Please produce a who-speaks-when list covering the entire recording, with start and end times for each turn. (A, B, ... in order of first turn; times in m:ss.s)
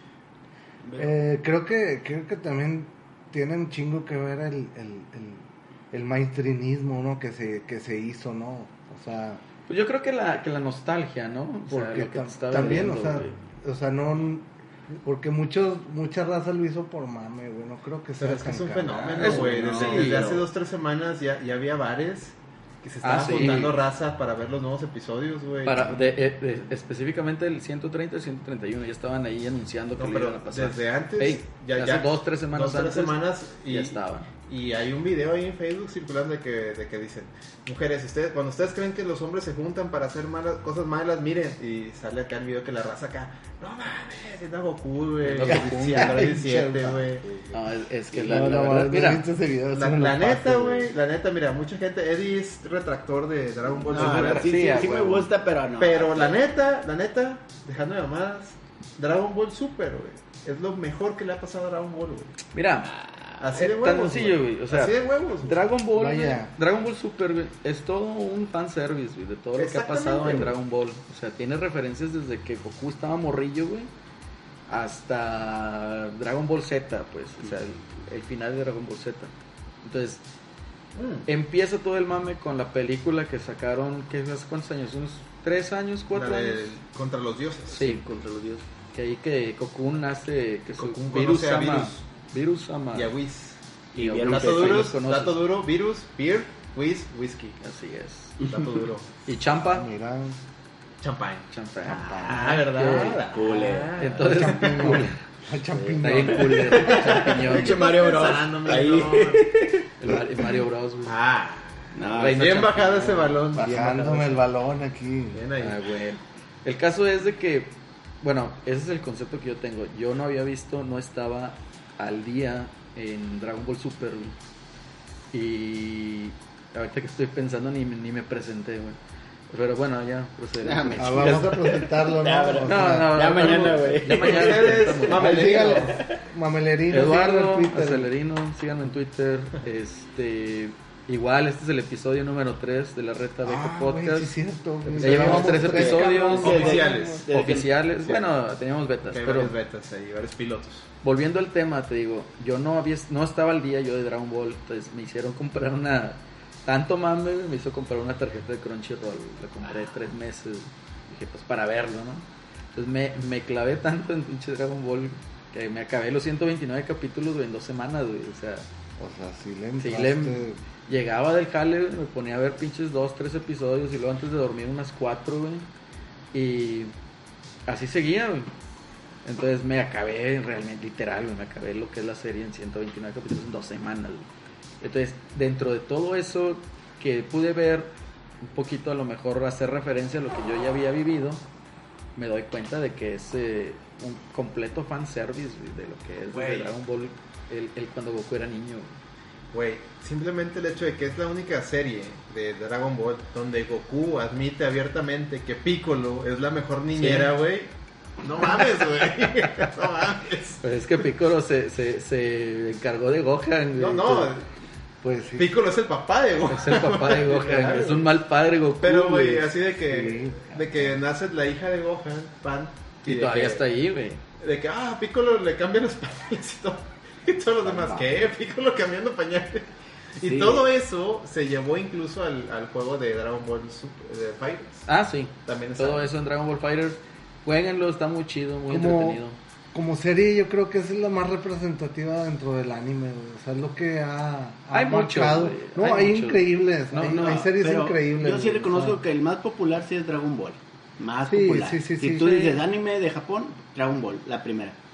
0:01.0-0:09.4 A
0:09.7-0:13.3 B
0:11.7-0:20.3 A
0:18.2-0:26.1 C
0:19.2-0:20.4 B
0:23.0-0:23.7 B
0:23.3-0:23.6 A
0:25.6-0:34.3 B
0:30.0-0:47.2 C
0:45.2-0:46.3 B
0:45.8-0:47.6 A
0:47.5-0:49.2 B
0:48.2-0:50.9 A
0:49.7-0:54.8 C
0:53.8-0:56.4 D
0:53.9-0:55.3 B
0:55.8-1:02.4 C
1:02.5-1:03.0 B
1:03.4-1:05.6 C
1:03.6-1:13.9 B
1:05.9-1:06.5 A
1:09.6-1:10.5 C
1:14.7-1:20.2 B
1:20.9-1:21.3 C
1:21.2-1:26.7 B
1:26.1-1:27.9 C
1:27.7-1:28.0 B
1:27.7-1:28.6 D
1:28.9-1:33.1 B
1:30.8-1:32.0 C
1:32.9-1:33.6 C
1:33.9-1:34.9 D
1:34.0-1:35.4 B
1:34.2-1:37.6 C
1:37.6-1:38.4 B
1:38.4-1:38.6 D
1:38.4-1:39.1 C
1:39.2-1:39.9 B
1:39.6-1:40.4 A
1:41.0-1:45.1 C
1:41.5-1:43.2 B
1:41.9-1:42.6 D
1:43.3-1:44.1 D
1:44.0-1:45.1 B
1:44.2-1:47.2 A
1:45.7-1:49.9 D
1:46.0-1:47.8 B
1:46.9-1:49.5 C
1:50.0-1:51.2 B
1:51.0-1:54.3 C
1:51.9-1:52.4 D
1:52.1-1:53.3 B
1:53.5-1:55.4 A
1:53.6-1:54.1 D
1:55.3-1:55.8 C
1:55.6-2:04.3 B
2:05.3-2:09.0 B
2:09.5-2:11.5 B
2:10.6-2:16.2 D
2:11.0-2:13.4 A
2:12.6-2:15.3 B
2:13.4-2:16.0 C
2:15.1-2:18.1 A
2:16.9-2:24.3 B
2:23.4-2:27.2 A
2:25.0-2:28.2 D
2:25.0-2:26.7 B
2:26.3-2:27.2 C
2:27.3-2:29.5 B
2:29.1-2:30.9 C
2:31.0-2:48.7 B
2:49.0-2:50.6 A
2:49.8-2:55.7 B
2:56.3-2:56.9 B
2:57.7-2:58.5 B
2:59.2-3:04.3 B
3:04.8-3:11.4 B
3:12.2-3:19.0 B
3:16.3-3:16.7 C
3:19.5-3:30.6 C
3:26.9-3:27.3 B
3:30.6-3:34.3 B
3:33.8-3:34.4 C
3:35.0-3:35.5 A
3:35.4-3:38.1 C
3:36.5-3:39.4 B
3:38.8-3:43.6 C
3:39.8-3:41.0 A
3:43.0-3:44.2 B
3:44.4-3:54.9 C
3:47.6-3:48.3 A
3:50.2-3:50.7 D
3:54.9-3:59.4 B
3:55.4-3:56.1 C
3:58.7-3:59.2 A
3:59.7-4:09.0 A
4:04.7-4:07.5 B
4:07.0-4:14.8 D
4:11.2-4:12.4 A
4:12.1-4:12.6 B